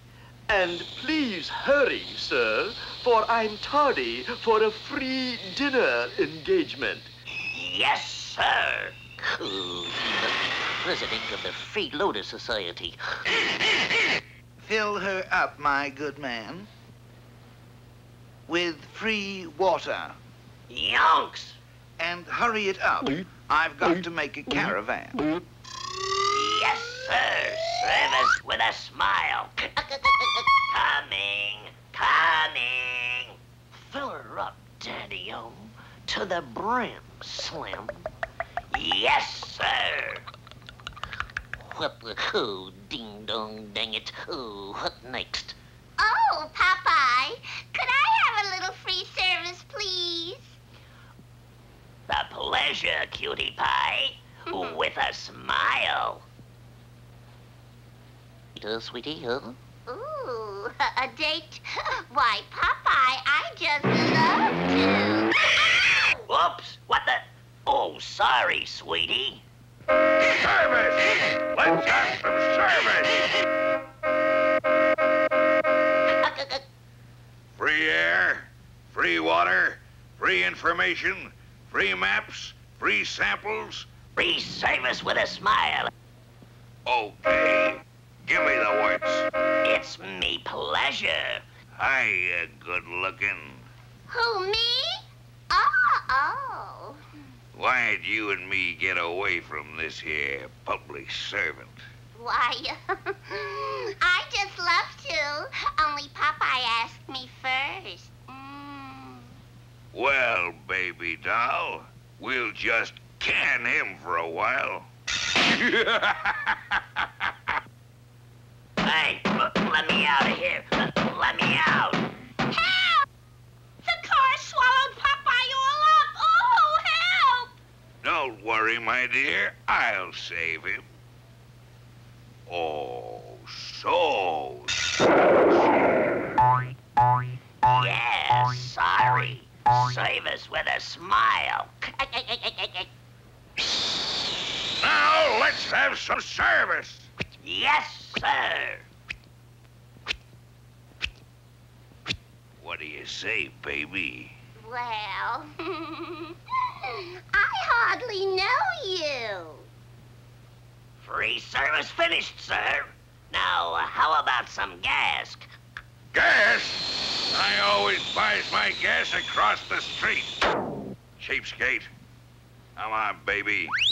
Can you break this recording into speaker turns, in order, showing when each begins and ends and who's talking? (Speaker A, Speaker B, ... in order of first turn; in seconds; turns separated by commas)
Speaker A: 0.5-7.1, Speaker B: 7.5-13.2, Speaker C: 14.6-16.7, Speaker C: 18.5-20.2, Speaker B: 20.7-21.6, Speaker C: 22.0-25.2, Speaker B: 26.3-38.0, Speaker B: 38.7-40.2, Speaker B: 41.6-45.6, Speaker D: 46.0-50.6, Speaker B: 52.1-56.2, Speaker B: 58.6-59.6, Speaker D: 59.9-65.3, Speaker B: 66.0-69.4, Speaker E: 70.3-73.3, Speaker B: 76.2-76.6, Speaker E: 77.6-83.9, Speaker B: 84.2-85.9, Speaker E: 86.9-89.3, Speaker B: 89.6-91.4, Speaker E: 91.8-93.7, Speaker D: 94.1-97.0, Speaker E: 97.5-101.9, Speaker D: 102.2-109.3, Speaker E: 109.9-114.9, Speaker E: 115.4-117.3, Speaker B: 118.8-122.1, Speaker D: 122.5-123.1, Speaker D: 123.8-127.5, Speaker E: 128.0-130.8, Speaker E: 132.5-134.8, Speaker B: 137.6-142.9, Speaker E: 144.8-147.1, Speaker B: 147.4-148.9, Speaker E: 152.6-154.3, Speaker D: 154.6-159.7, Speaker B: 161.0-165.5, Speaker E: 166.1-170.4, Speaker E: 171.2-171.9, Speaker E: 172.8-173.7